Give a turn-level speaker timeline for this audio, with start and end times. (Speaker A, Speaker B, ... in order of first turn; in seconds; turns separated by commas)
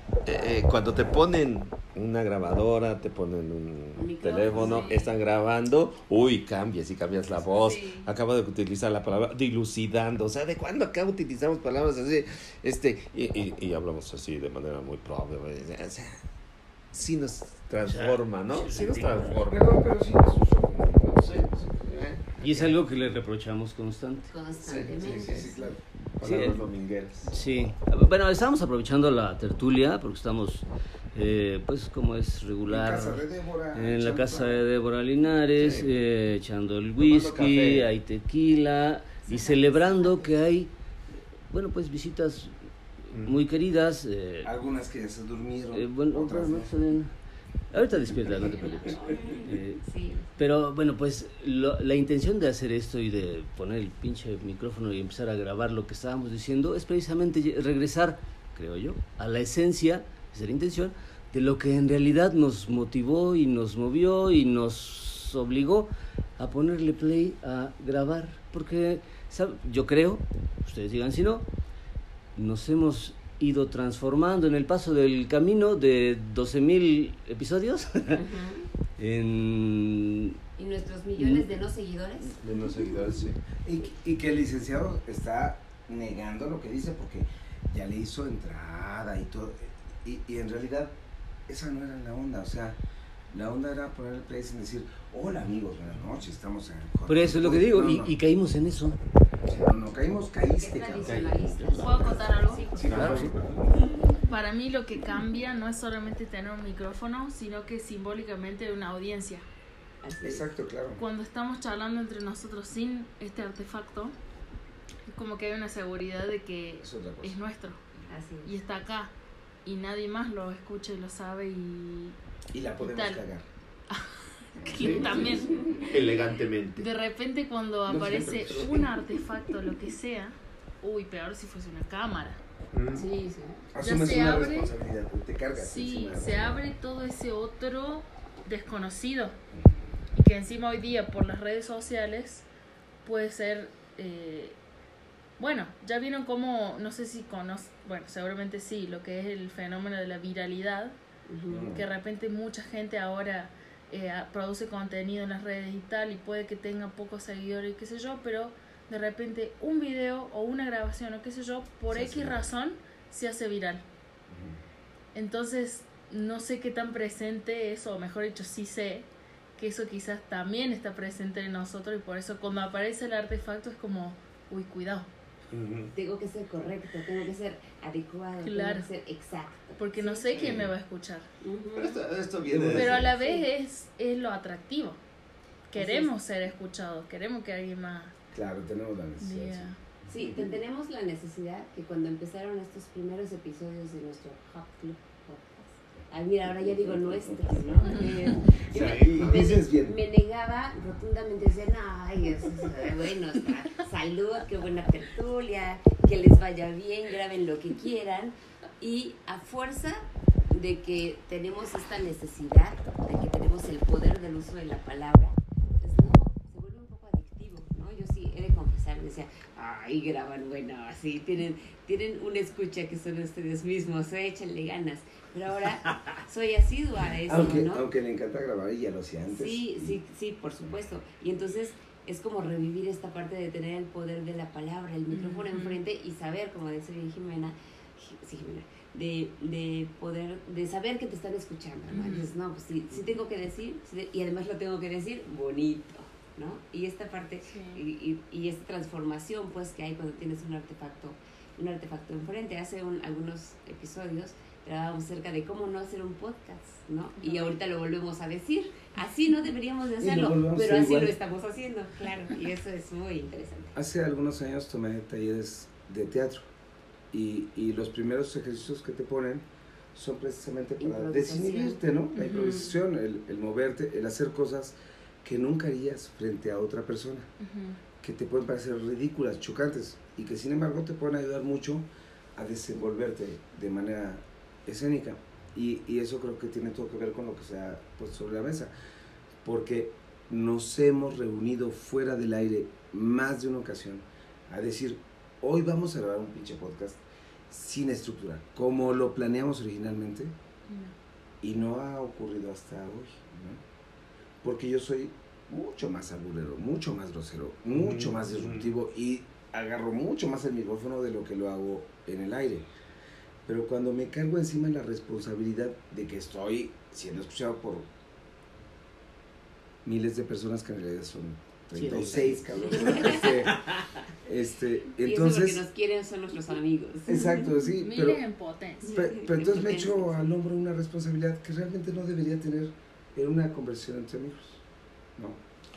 Speaker A: 0.2-16.2, Speaker B: 4.0-5.0, Speaker C: 4.5-5.1, Speaker C: 7.5-8.1, Speaker A: 16.9-19.7, Speaker D: 17.8-19.4, Speaker E: 19.5-22.0, Speaker A: 21.2-22.7, Speaker D: 22.4-24.3, Speaker B: 24.3-25.6, Speaker A: 24.6-24.9, Speaker E: 24.7-26.4, Speaker A: 26.2-27.3, Speaker D: 26.2-26.6, Speaker D: 27.3-33.2, Speaker E: 32.7-34.6, Speaker D: 33.7-40.7, Speaker A: 35.6-35.9, Speaker E: 37.0-37.9, Speaker B: 39.2-40.3, Speaker D: 41.5-42.5, Speaker A: 43.1-43.4, Speaker D: 43.1-44.5, Speaker E: 44.4-46.7, Speaker D: 45.7-47.1, Speaker D: 47.7-49.8, Speaker B: 48.2-50.4, Speaker D: 50.4-71.5, Speaker D: 72.3-78.2, Speaker B: 78.1-78.7, Speaker D: 79.0-80.4, Speaker B: 80.6-83.0, Speaker D: 81.2-81.5, Speaker E: 82.4-90.9, Speaker E: 91.5-92.8, Speaker E: 93.3-98.1, Speaker D: 97.1-99.0, Speaker E: 99.5-101.3, Speaker B: 100.5-103.2, Speaker A: 101.0-103.3, Speaker C: 101.8-102.6, Speaker E: 101.9-103.7, Speaker D: 102.9-103.3, Speaker C: 104.1-109.4, Speaker B: 110.0-110.5, Speaker E: 110.2-111.0, Speaker C: 111.0-114.1, Speaker C: 115.1-117.8, Speaker E: 116.8-117.4, Speaker B: 118.1-118.6, Speaker C: 118.4-119.1, Speaker C: 119.6-122.2, Speaker E: 122.5-123.4, Speaker C: 122.8-123.2, Speaker C: 123.9-125.6, Speaker E: 124.6-125.6, Speaker A: 124.8-125.1, Speaker B: 124.8-126.0, Speaker A: 125.9-126.9, Speaker C: 126.8-132.4, Speaker E: 127.9-128.8, Speaker A: 127.9-128.6, Speaker A: 132.7-133.1, Speaker B: 132.9-133.6, Speaker E: 133.7-136.6, Speaker C: 133.8-134.7, Speaker C: 135.6-139.3, Speaker C: 140.2-142.4, Speaker C: 143.0-144.6, Speaker C: 145.4-151.0, Speaker B: 151.3-151.7, Speaker E: 151.5-151.8, Speaker C: 151.7-163.8, Speaker E: 161.9-162.4, Speaker E: 164.3-164.6, Speaker C: 165.1-175.1, Speaker A: 175.5-175.9, Speaker B: 175.9-180.3, Speaker C: 178.4-178.9, Speaker C: 179.8-181.3, Speaker A: 180.3-180.7, Speaker B: 181.4-182.0, Speaker A: 181.7-183.0, Speaker E: 182.5-183.1, Speaker C: 182.7-185.0, Speaker B: 183.0-183.5, Speaker C: 185.7-188.1, Speaker B: 185.7-186.1, Speaker E: 188.3-190.6, Speaker C: 189.2-189.8, Speaker B: 190.1-227.8, Speaker E: 196.4-200.0, Speaker C: 197.8-198.2, Speaker A: 198.7-199.4, Speaker E: 227.2-230.0, Speaker B: 229.3-263.7, Speaker C: 235.1-235.8, Speaker C: 241.9-242.3, Speaker C: 247.5-247.8, Speaker C: 257.2-257.6, Speaker E: 260.0-261.1, Speaker E: 263.7-266.5, Speaker E: 267.1-277.3, Speaker B: 270.8-271.8, Speaker C: 272.2-272.7, Speaker C: 277.4-277.8, Speaker E: 278.0-288.7, Speaker E: 289.4-300.3, Speaker C: 300.7-300.9, Speaker E: 301.4-303.6, Speaker E: 304.4-312.7, Speaker A: 307.7-308.7, Speaker E: 313.4-317.9, Speaker E: 319.8-323.6, Speaker D: 321.7-322.4, Speaker B: 322.6-323.3, Speaker E: 324.2-325.6, Speaker B: 325.0-327.6, Speaker E: 327.1-328.2, Speaker C: 327.8-328.9, Speaker B: 328.8-330.3, Speaker E: 328.9-334.6